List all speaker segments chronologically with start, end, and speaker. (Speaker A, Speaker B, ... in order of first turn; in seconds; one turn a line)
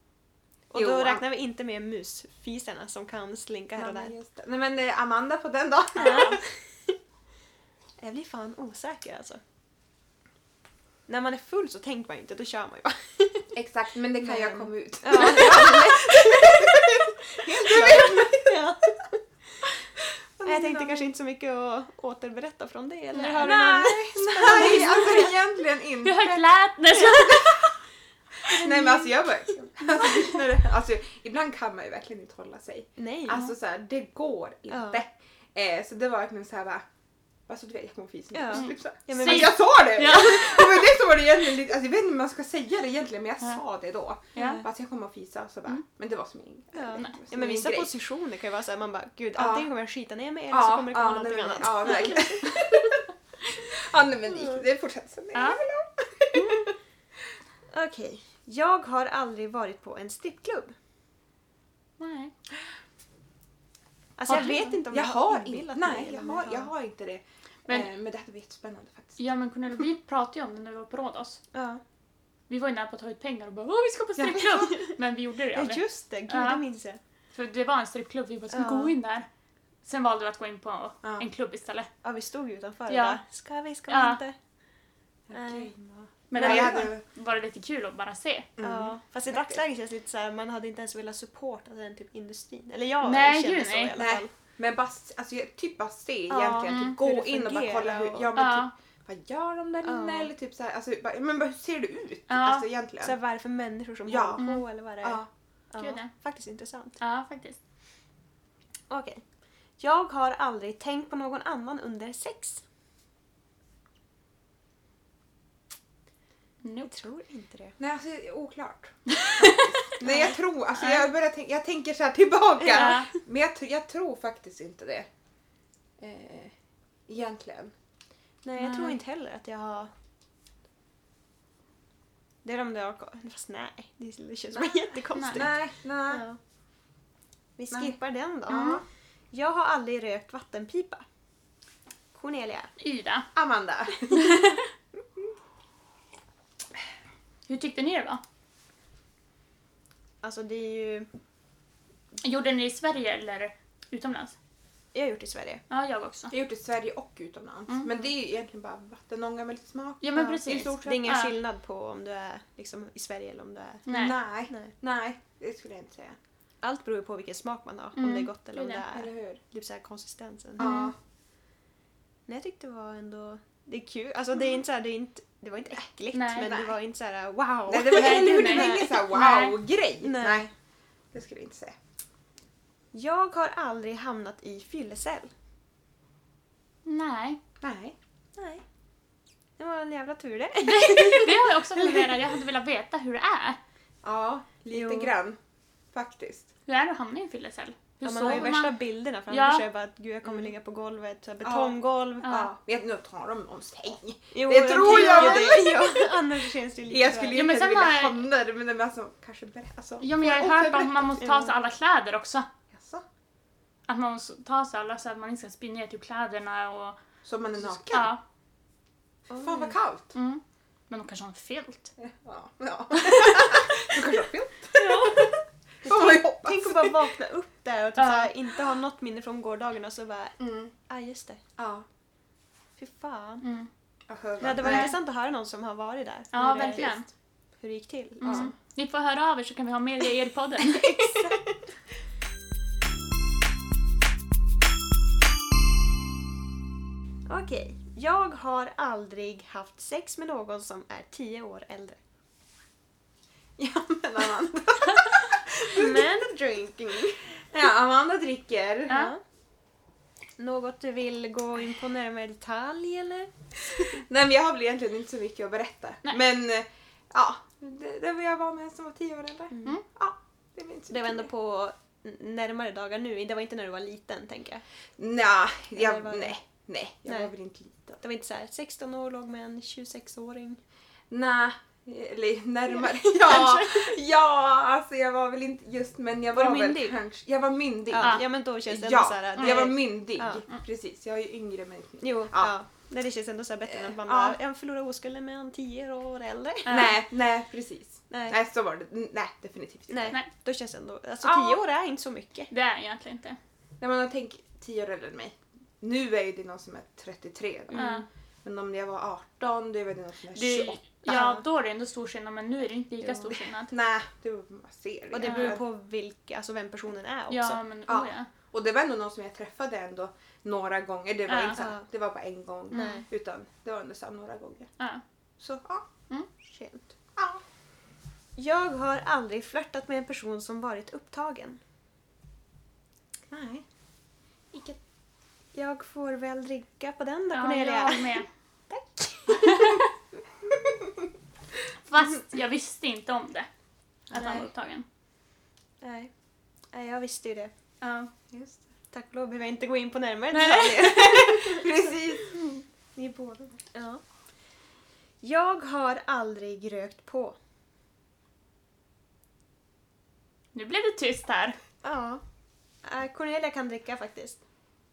Speaker A: 0.7-4.1
Speaker B: 0.7-1.2
Speaker B: 3.8-6.4
Speaker C: 6.0-6.4
Speaker A: 6.0-6.9
Speaker A: 8.0-9.4
Speaker A: 11.1-13.5
Speaker B: 13.5-18.6
Speaker A: 14.2-19.2
Speaker B: 20.0-21.1
Speaker A: 20.4-25.4
Speaker C: 23.1-24.0
Speaker B: 23.4-27.7
Speaker C: 26.0-27.6
Speaker B: 28.4-36.8
Speaker A: 28.4-30.1
Speaker A: 33.0-33.5
Speaker A: 34.7-35.0
Speaker B: 37.5-47.9
Speaker A: 38.3-40.3
Speaker C: 38.5-40.8
Speaker C: 44.4-44.6
Speaker A: 44.4-44.6
Speaker A: 46.7-53.0
Speaker B: 49.4-49.7
Speaker B: 50.5-56.7
Speaker C: 55.3-55.6
Speaker A: 57.7-60.7
Speaker C: 62.0-62.3
Speaker A: 64.2-66.7
Speaker C: 64.3-64.8
Speaker B: 64.9-69.2
Speaker C: 69.2-71.4
Speaker A: 71.5-71.8
Speaker C: 72.5-76.6
Speaker B: 74.2-74.7
Speaker A: 75.5-77.0
Speaker C: 77.3-79.3
Speaker A: 78.5-78.9
Speaker C: 79.8-81.9
Speaker A: 82.0-84.3
Speaker C: 82.9-83.2
Speaker C: 83.9-84.2
Speaker B: 85.3-85.8
Speaker A: 85.3-86.8
Speaker C: 86.3-88.5
Speaker B: 86.3-87.0
Speaker B: 88.6-89.5
Speaker A: 88.6-94.3
Speaker C: 93.0-93.9
Speaker B: 94.0-103.1
Speaker A: 96.3-98.3
Speaker C: 96.7-96.9
Speaker C: 98.3-98.7
Speaker A: 99.8-100.3
Speaker C: 102.3-102.7
Speaker A: 103.0-107.0
Speaker B: 104.1-104.4
Speaker C: 104.4-104.6
Speaker B: 105.0-105.3
Speaker C: 105.8-106.1
Speaker C: 107.0-107.6
Speaker A: 108.9-109.2
Speaker A: 109.8-112.6
Speaker C: 116.6-116.9
Speaker A: 116.8-117.8
Speaker B: 117.8-125.1
Speaker C: 119.1-119.9
Speaker A: 120.0-120.4
Speaker C: 120.8-121.1
Speaker A: 122.6-123.0
Speaker C: 122.7-123.1
Speaker B: 126.0-126.5
Speaker B: 127.1-127.7
Speaker A: 128.4-129.9
Speaker C: 128.6-129.0
Speaker A: 132.4-136.4
Speaker C: 135.1-135.5
Speaker B: 135.3-136.2
Speaker A: 137.6-141.0
Speaker C: 138.5-138.8
Speaker A: 142.1-142.7
Speaker C: 142.8-143.3
Speaker B: 143.3-144.4
Speaker C: 144.2-144.6
Speaker C: 147.5-148.2
Speaker A: 150.2-151.1
Speaker C: 152.2-154.3
Speaker A: 154.9-155.6
Speaker C: 155.7-156.3
Speaker B: 156.3-161.2
Speaker C: 160.0-161.3
Speaker A: 160.1-163.9
Speaker C: 163.8-164.2
Speaker B: 163.9-166.2
Speaker A: 166.6-170.8
Speaker C: 168.0-168.8
Speaker B: 168.9-169.4
Speaker B: 170.6-170.9
Speaker C: 170.6-170.9
Speaker A: 172.3-179.1
Speaker C: 176.1-176.6
Speaker B: 176.4-176.7
Speaker B: 177.7-180.5
Speaker C: 177.8-179.6
Speaker A: 180.0-180.5
Speaker B: 181.1-181.8
Speaker A: 182.9-185.3
Speaker C: 186.8-187.4
Speaker B: 187.6-187.9
Speaker A: 188.4-188.6
Speaker A: 189.6-192.3
Speaker C: 190.6-193.6
Speaker B: 194.0-195.4
Speaker A: 194.7-195.1
Speaker B: 195.9-196.5
Speaker C: 196.7-198.7
Speaker A: 198.0-202.3
Speaker B: 198.2-198.5
Speaker C: 199.3-199.6
Speaker B: 201.4-206.2
Speaker C: 202.2-202.5
Speaker A: 204.3-207.4
Speaker C: 205.1-205.6
Speaker B: 206.9-211.2
Speaker C: 207.3-208.2
Speaker C: 210.0-212.5
Speaker A: 211.2-211.5
Speaker B: 212.7-213.0
Speaker C: 213.9-217.0
Speaker B: 217.2-218.1
Speaker C: 217.8-218.2
Speaker A: 219.3-219.8
Speaker B: 219.3-220.1
Speaker C: 220.1-221.9
Speaker B: 222.0-227.1
Speaker A: 224.7-225.3
Speaker C: 224.8-225.1
Speaker A: 225.8-231.4
Speaker C: 228.0-228.3
Speaker B: 230.4-230.7
Speaker B: 231.6-231.8
Speaker A: 232.8-233.4
Speaker C: 233.4-233.7
Speaker B: 234.1-234.9
Speaker A: 234.4-236.9
Speaker C: 234.6-234.9
Speaker C: 236.3-237.1
Speaker B: 236.3-237.0
Speaker A: 237.6-238.5
Speaker C: 238.2-241.2
Speaker B: 238.2-238.5
Speaker A: 240.7-241.4
Speaker A: 247.3-252.0
Speaker B: 253.6-256.2
Speaker A: 255.7-257.2
Speaker B: 257.5-259.1
Speaker A: 258.9-259.2
Speaker A: 260.4-263.3
Speaker B: 263.8-271.3
Speaker A: 269.5-269.8
Speaker A: 270.9-274.6
Speaker B: 275.0-278.0
Speaker A: 275.7-276.4
Speaker A: 277.1-277.3
Speaker A: 278.0-280.6
Speaker B: 281.1-292.5
Speaker A: 282.8-283.9
Speaker A: 286.3-287.0
Speaker A: 287.9-290.4
Speaker C: 288.0-288.2
Speaker C: 289.4-289.7
Speaker A: 292.0-296.9
Speaker B: 293.7-294.4
Speaker C: 296.6-297.0
Speaker B: 296.7-300.2
Speaker A: 298.1-298.4
Speaker A: 299.9-302.5
Speaker B: 301.2-301.6
Speaker C: 302.5-303.4
Speaker B: 303.8-310.8
Speaker A: 307.7-308.0
Speaker C: 307.7-308.1
Speaker C: 310.3-313.7
Speaker A: 311.1-311.4
Speaker B: 313.2-315.6
Speaker A: 315.1-317.6
Speaker C: 315.2-315.6
Speaker C: 317.3-318.3
Speaker B: 317.9-324.7
Speaker C: 321.3-321.6
Speaker A: 321.6-321.8
Speaker A: 322.7-323.0
Speaker B: 325.4-325.9
Speaker A: 326.4-326.8
Speaker B: 327.1-327.4
Speaker A: 328.4-331.6
Speaker B: 333.3-333.6
Speaker B: 334.5-334.8
Speaker A: 335.5-339.9
Speaker C: 337.3-338.3
Speaker C: 341.9-343.5
Speaker C: 344.1-344.9
Speaker A: 344.1-344.4
Speaker A: 345.8-346.1
Speaker A: 346.7-347.5
Speaker C: 347.8-348.1
Speaker B: 348.3-348.6
Speaker A: 348.9-351.9
Speaker C: 350.3-351.1
Speaker B: 350.9-352.3
Speaker A: 352.9-354.0
Speaker A: 355.2-357.4
Speaker C: 360.5-361.6
Speaker A: 361.8-362.2
Speaker A: 362.8-364.4